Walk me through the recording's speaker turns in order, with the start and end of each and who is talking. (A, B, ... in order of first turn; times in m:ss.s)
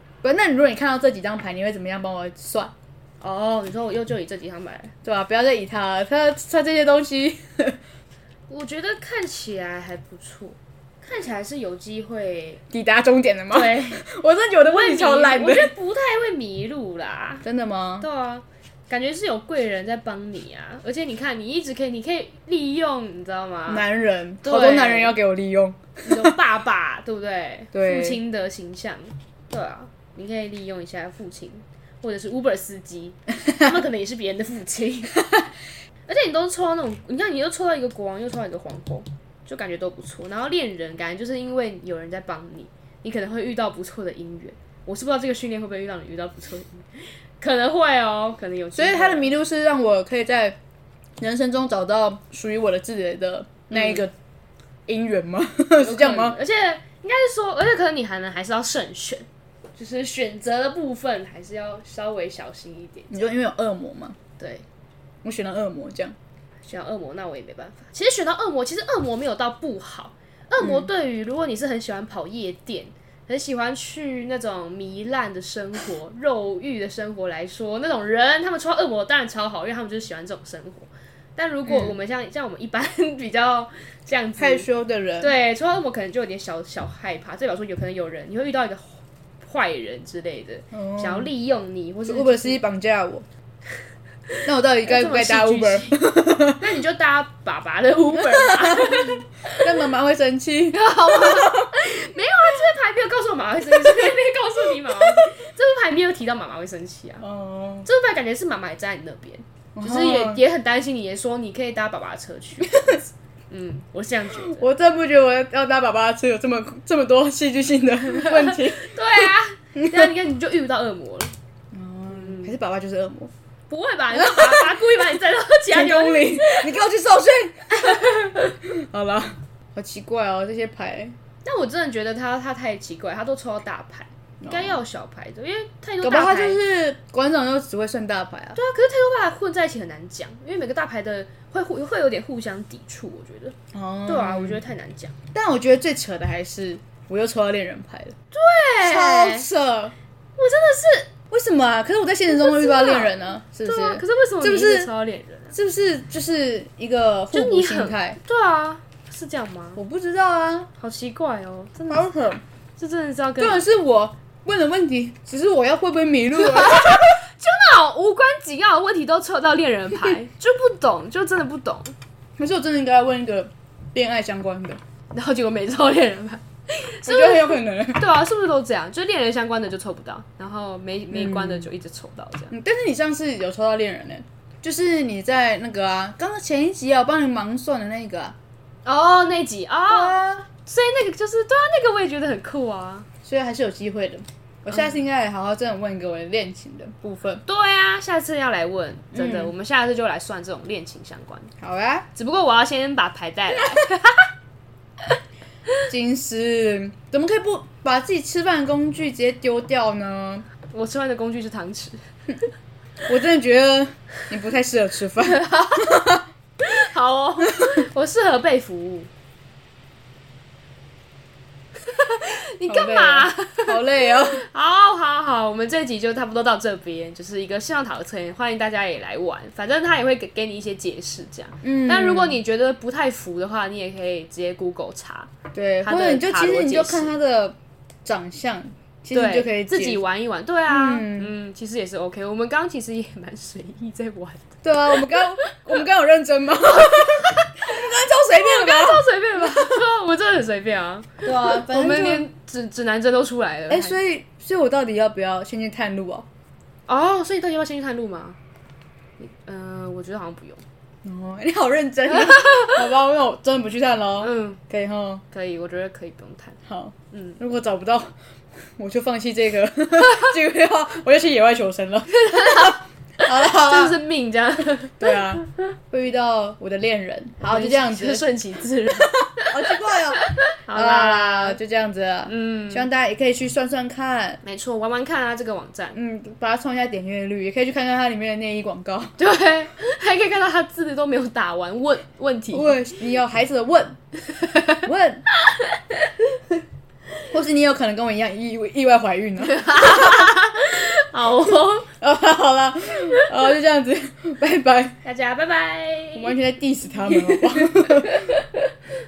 0:00.2-0:02.7 A
0:03.2-0:04.9 B
0:05.0-0:07.8 A
0:08.5-0:12.6 B
0:12.7-0:15.7 A
0:13.5-0:14.0 B
0:14.6-0:17.4 B
0:17.4-0:18.1 A
0:18.0-0:23.8 B
0:23.7-0:26.4 A
0:24.4-0:25.2 B
0:26.0-0:35.2 B
0:27.7-0:28.2 A
0:36.1-0:46.9 B
0:47.4-0:49.3 B
0:48.8-0:50.6 A
0:51.2-0:54.1 A
0:53.7-0:54.0 B
0:54.9-0:56.4 A
0:55.8-1:03.2 B
1:03.1-1:04.2 A
1:04.4-1:04.6 B
1:05.2-1:06.2 A
1:06.6-1:24.7 B
1:10.6-1:10.9 A
1:24.4-1:25.3 A
1:25.2-1:32.6 B
1:30.7-1:31.3 A
1:32.1-1:33.2 A
1:34.4-1:36.6 A
1:34.8-1:36.0 B
1:36.6-1:39.8 B
1:38.2-1:41.7 A
1:40.7-1:47.3 B
1:43.8-1:44.2 A
1:45.0-1:45.3 A
1:47.2-1:47.9 A
1:47.8-1:54.7 B
1:49.8-1:50.4 A
1:54.3-1:58.9 A
1:58.1-2:01.3 B
1:59.8-2:00.1 A
2:01.7-2:03.3 A
2:02.1-2:02.5 B
2:03.7-2:06.8 B
2:04.1-2:05.0 A
2:05.7-2:11.2 A
2:07.8-2:08.5 B
2:11.4-2:16.6 B
2:14.4-2:14.8 A
2:16.0-2:18.6 A
2:18.6-2:25.1 B
2:23.7-2:24.6 A
2:25.3-2:28.2 A
2:28.3-2:29.5 B
2:28.8-2:29.9 A
2:30.4-2:31.1 B
2:31.3-2:34.9 A
2:32.3-2:35.6 B
2:35.5-2:38.2 A
2:37.3-2:39.8 B
2:39.8-2:40.7 A
2:40.8-2:42.1 B
2:41.9-2:42.4 A
2:42.8-2:43.6 B
2:43.4-2:47.2 A
2:46.3-2:52.0 B
2:52.4-2:54.8 A
2:55.1-3:02.5 B
2:57.0-2:58.1 A
3:01.1-3:01.7 A
3:02.5-3:08.4 A
3:08.8-3:13.1 B
3:09.9-3:10.5 A
3:13.2-3:17.4 A
3:17.4-3:21.5 B
3:19.1-3:19.5 A
3:21.6-3:22.1 A
3:22.2-3:24.3 B
3:25.9-3:30.5 A
3:30.7-3:32.0 B
3:33.1-3:36.2 A
3:35.2-3:36.0 B
3:36.6-3:39.1 B
3:41.8-3:55.3 B
3:42.7-3:44.4 A
3:51.6-3:52.4 A
3:55.5-4:00.0 A
3:55.8-3:57.1 B
3:59.1-4:05.8 B
4:00.7-4:01.3 A
4:04.6-4:09.8 A
4:06.7-4:14.0 B
4:11.2-4:12.3 A
4:13.7-4:16.3 A
4:16.9-4:18.4 B
4:19.2-4:20.6 B
4:21.0-4:25.2 A
4:22.1-4:22.8 B
4:24.2-4:24.6 B
4:25.3-4:26.6 B
4:26.7-4:28.2 A
4:27.1-4:27.4 B
4:28.8-4:34.0 A
4:32.1-4:35.7 B
4:35.0-4:38.3 A
4:37.5-4:41.6 B
4:39.0-4:44.4 A
4:42.3-4:42.9 B
4:44.4-4:46.0 B
4:45.9-4:49.2 A
4:49.2-4:52.8 B
4:52.5-4:54.0 A
4:54.3-4:54.8 B
4:54.8-4:55.2 A
4:55.4-4:56.2 B
4:57.3-5:00.3 A
4:59.4-5:01.9 B
5:02.0-5:05.0 A
5:05.0-5:06.4 B
5:06.1-5:08.3 A
5:07.1-5:08.7 B